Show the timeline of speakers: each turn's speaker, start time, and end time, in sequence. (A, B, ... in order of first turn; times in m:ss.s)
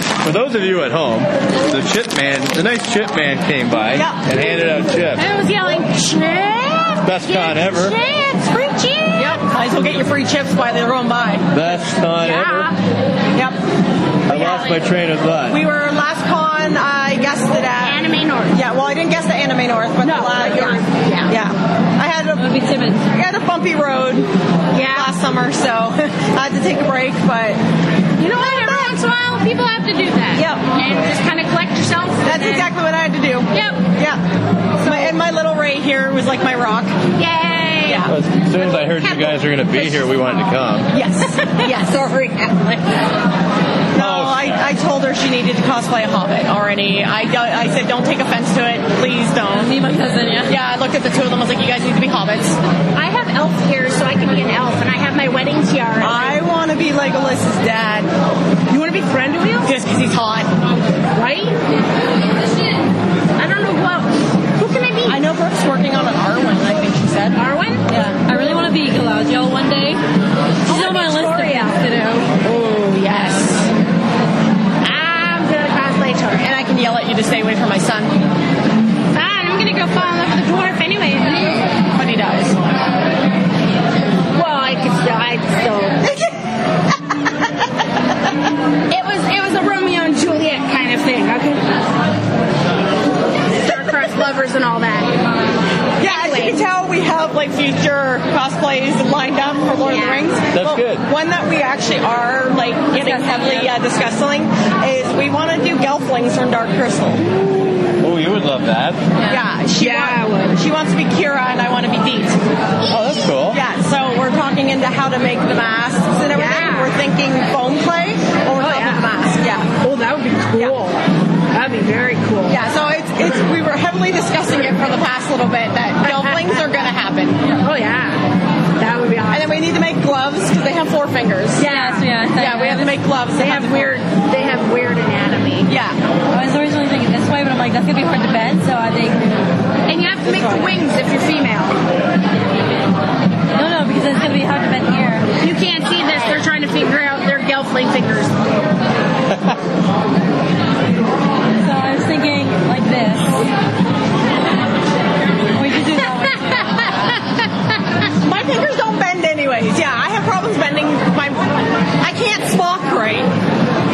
0:00.2-0:05.2 A
0:03.9-0:04.2 B
0:05.2-0:09.4 C
0:07.0-0:08.0 A
0:09.2-0:11.5 B
0:11.5-0:12.7 A
0:12.2-0:12.8 C
0:14.3-0:15.6 A
0:14.3-0:14.8 B
0:15.5-0:22.5 B
0:17.8-0:18.6 C
0:20.0-0:21.4 C
0:22.4-0:23.0 D
0:23.1-0:24.3 B
0:24.7-0:25.1 C
0:24.9-0:27.6 B
0:28.2-0:32.7 C
0:28.3-0:29.0 B
0:30.4-0:30.6 B
0:32.2-0:34.2 B
0:33.5-0:33.8 C
0:34.8-0:35.2 C
0:34.8-0:36.9 B
0:37.2-0:38.1 C
0:37.9-0:38.2 B
0:38.1-0:40.9 A
0:39.0-0:40.0 C
0:40.9-0:42.1 B
0:41.4-0:43.1 C
0:43.9-0:49.8 B
0:44.0-0:44.6 A
0:49.6-0:50.6 D
0:50.5-0:52.6 B
0:53.0-0:56.4 C
0:56.0-0:58.1 B
0:58.7-0:59.8 C
0:59.6-1:00.5 B
1:01.2-1:01.6 C
1:03.4-1:05.2 C
1:05.1-1:08.5 B
1:07.4-1:07.9 C
1:08.2-1:10.0 D
1:10.7-1:13.7 C
1:10.7-1:12.3 D
1:14.8-1:16.5 C
1:16.4-1:18.2 B
1:19.1-1:21.7 C
1:21.9-1:22.8 B
1:24.3-1:26.0 C
1:26.0-1:26.3 B
1:28.9-1:31.6 C
1:33.6-1:35.1 C
1:36.0-1:47.2 B
1:36.0-1:36.6 C
1:39.8-1:40.3 C
1:40.5-1:41.0 A
1:43.0-1:43.7 D
1:48.0-1:49.0 A
1:49.3-1:52.4 B
1:49.8-1:50.6 C
1:52.9-1:53.6 A
1:53.5-1:59.7 B
1:56.3-1:56.9 C
1:58.6-1:59.1 C
1:59.8-2:02.6 C
2:02.5-2:07.4 B
2:06.0-2:06.7 C
2:07.5-2:08.2 C
2:08.8-2:09.6 C
2:09.3-2:11.7 B
2:11.6-2:12.1 C
2:11.6-2:13.0 D
2:12.3-2:14.0 B
2:13.4-2:15.7 C
2:15.7-2:16.0 B
2:16.3-2:19.4 D
2:19.9-2:21.8 C
2:20.2-2:20.7 B
2:23.5-2:25.3 D
2:25.4-2:28.4 C
2:31.6-2:33.5 D
2:35.6-2:37.2 D
2:38.2-2:43.3 B